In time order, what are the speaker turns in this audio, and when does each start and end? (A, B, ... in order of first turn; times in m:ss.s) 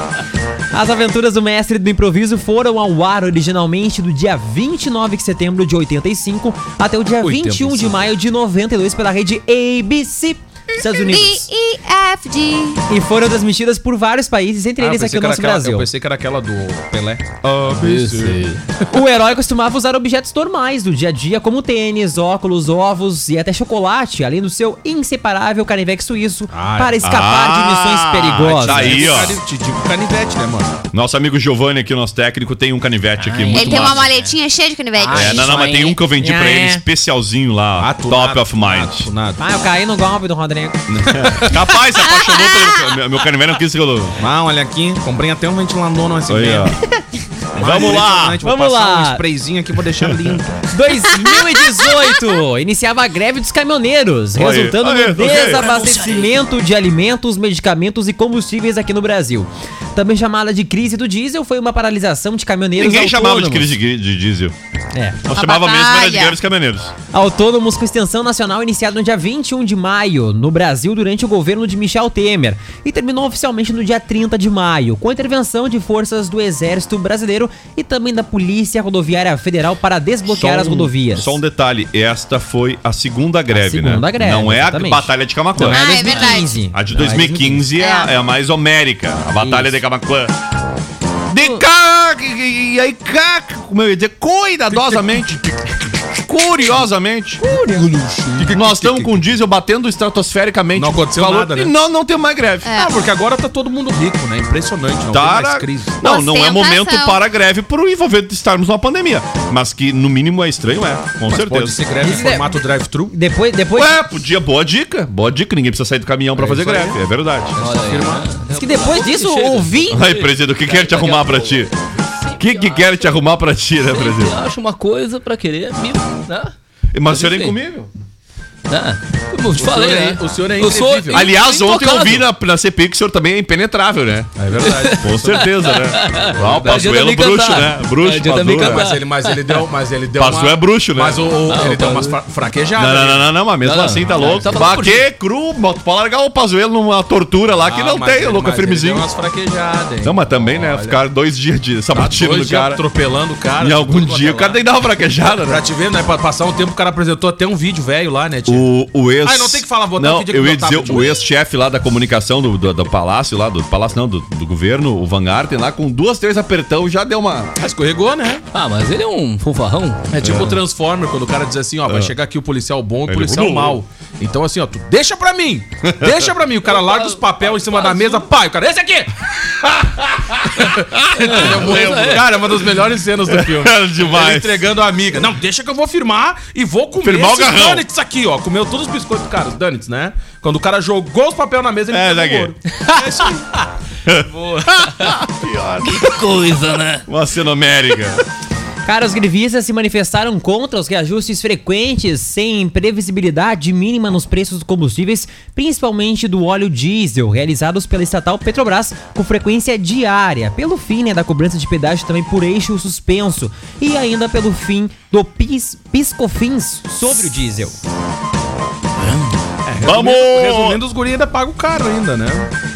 0:00.7-0:11.5 A
0:07.2-0:08.0 B
0:10.8-0:12.8 C
0:12.9-0:15.9 A
0:14.8-0:18.5 B
0:17.7-0:18.6 D
0:18.9-0:29.1 A
0:26.5-0:27.0 B
0:27.0-0:29.4 E
0:28.5-0:30.8 B
0:30.9-0:34.1 E
0:33.2-0:34.4 D
0:33.5-0:35.5 C
0:35.0-0:36.0 D
0:35.1-0:39.1 E
0:36.2-0:36.8 A
0:37.8-0:39.4 B
0:39.4-0:40.8 A
0:40.9-0:44.2 E
0:42.0-0:42.8 C
0:44.2-0:46.7 B
0:46.3-0:46.8 E
0:47.6-0:48.4 E
0:47.6-0:50.7 B
0:48.4-0:49.2 A
0:50.0-0:50.4 E
0:50.7-1:03.7 A
0:54.4-0:55.7 E
0:55.4-0:56.3 D
1:02.8-1:04.6 E
1:04.9-1:05.2 A
1:05.2-1:06.9 E
1:05.4-1:06.4 C
1:07.1-1:21.4 A
1:20.3-1:26.0 E
1:23.5-1:27.7 A
1:25.7-1:26.5 C
1:26.0-1:26.4 D
1:26.7-1:30.4 E
1:27.8-1:28.1 C
1:29.4-1:29.7 A
1:31.3-1:35.5 E
1:36.2-1:37.4 E
1:37.4-1:37.9 A
1:37.7-1:39.3 B
1:38.5-1:42.8 E
1:40.8-1:41.7 B
1:42.6-1:43.0 C
1:42.8-1:46.0 B
1:45.1-1:51.8 E
1:46.0-1:47.2 C
1:51.3-1:53.2 B
1:52.0-1:52.6 A
1:53.1-1:54.0 A
1:53.7-1:57.6 E
1:56.4-1:57.0 B
1:57.6-1:58.4 B
1:57.6-2:03.2 D
1:58.6-2:00.0 A
1:59.9-2:01.7 E
2:02.4-2:04.4 E
2:03.9-2:06.5 D
2:06.9-2:07.9 E
2:07.1-2:07.6 D
2:08.7-2:12.3 D
2:09.6-2:11.3 B
2:11.1-2:14.3 E
2:14.4-2:15.5 B
2:14.6-2:19.6 D
2:15.0-2:18.9 E
2:16.3-2:17.0 B
2:18.5-2:23.3 B
2:20.2-2:21.3 E
2:21.5-2:22.2 D
2:22.8-2:29.1 E
2:23.6-2:25.0 D
2:24.1-2:24.7 B
2:27.6-2:31.0 B
2:30.0-2:32.8 E
2:31.9-2:34.6 B
2:33.6-2:35.6 E
2:35.4-2:38.7 B
2:38.5-2:47.5 E
2:39.2-2:41.2 B
2:47.6-2:48.4 B
2:48.5-2:50.6 D
2:50.1-2:59.1 B
2:53.1-2:53.8 E
2:55.8-2:56.3 E
2:56.8-2:57.1 D
2:57.6-2:58.2 D
2:59.6-3:02.7 E
3:01.2-3:02.2 D
3:01.2-3:13.4 B
3:03.3-3:04.7 E
3:07.0-3:07.9 E
3:11.9-3:12.5 E
3:14.1-3:16.2 E
3:14.3-3:15.2 D
3:15.8-3:17.1 D
3:17.1-3:18.2 E
3:18.8-3:37.8 A
3:39.0-3:39.4 D
3:39.7-3:42.5 B
3:39.8-3:40.8 E